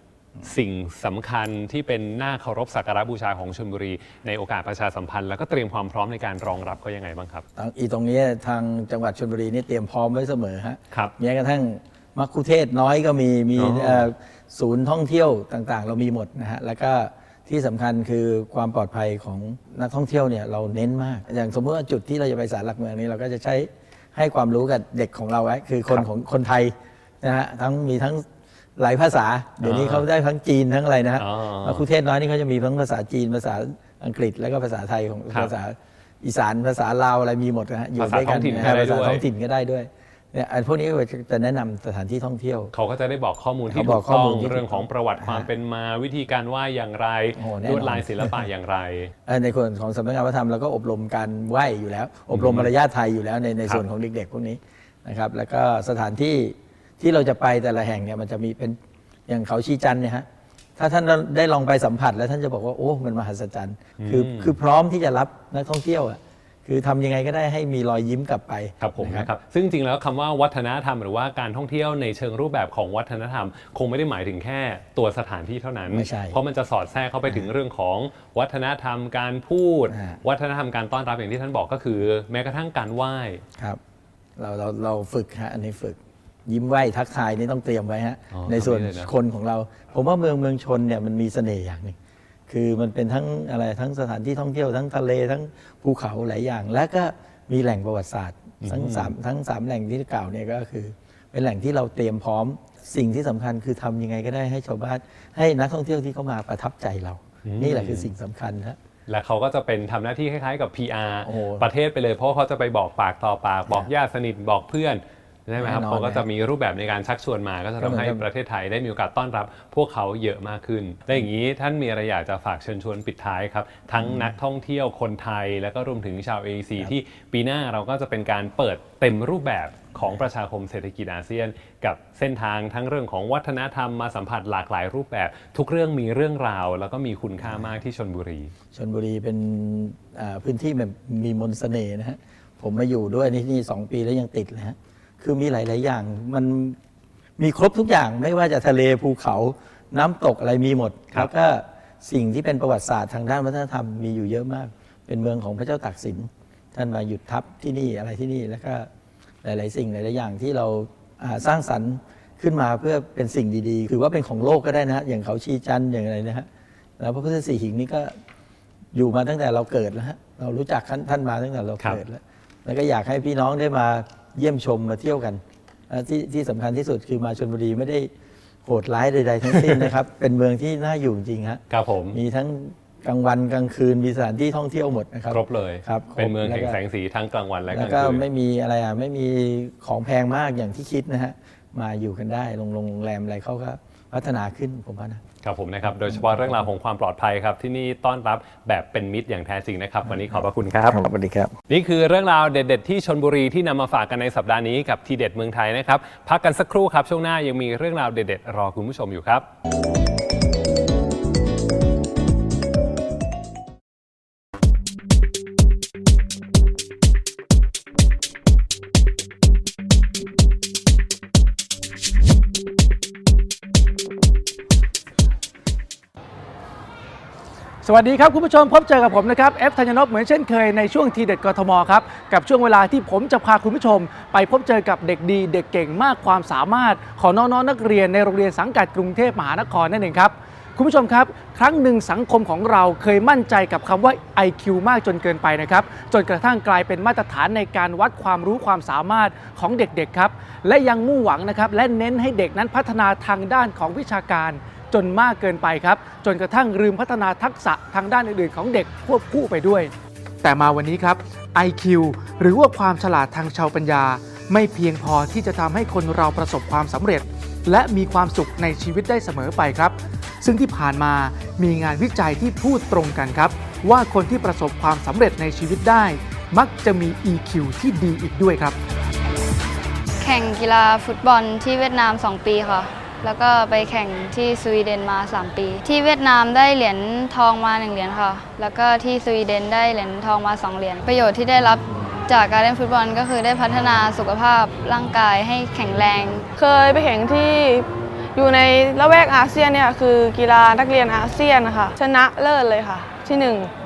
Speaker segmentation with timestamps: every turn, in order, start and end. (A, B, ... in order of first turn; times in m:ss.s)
0:00.4-0:07.4 A
0:07.6-0:28.2 B
0:13.6-0:14.1 A
0:28.8-0:42.7 B
0:29.6-0:30.1 A
0:31.2-0:31.8 A
0:35.3-0:35.5 A
0:38.0-0:39.2 A
0:42.7-0:49.1 A
0:43.7-0:45.5 B
0:47.4-0:48.5 B
0:49.2-0:58.8 B
0:52.3-0:52.7 A
0:59.3-1:00.2 B
1:00.8-1:09.3 B
1:04.0-1:04.6 A
1:08.8-1:23.4 A
1:15.9-1:16.4 B
1:19.9-1:20.2 B
1:24.4-1:31.9 B
1:28.3-1:29.1 A
1:32.5-1:48.8 B
1:38.6-1:39.2 A
1:47.4-1:48.1 A
1:49.1-2:18.5 A
1:51.2-1:51.7 B
1:55.6-1:56.3 B
1:57.8-1:58.2 B
2:04.0-2:04.3 B
2:17.4-2:17.7 B
2:18.7-2:26.8 B
2:27.4-2:38.9 B
2:39.4-2:46.5 B
2:47.0-2:48.1 B
2:48.9-2:58.1 B
2:58.6-3:06.8 B
2:59.5-2:59.9 A
3:01.7-3:02.2 A
3:05.3-3:08.3 A
3:07.7-3:15.2 B
3:15.4-3:21.0 A
3:15.8-3:16.6 B
3:20.3-3:21.5 B
3:21.7-3:29.4 A
3:47.8-4:38.8 C
4:40.2-4:56.5 D
4:56.6-4:57.8 E
4:58.4-5:03.6 E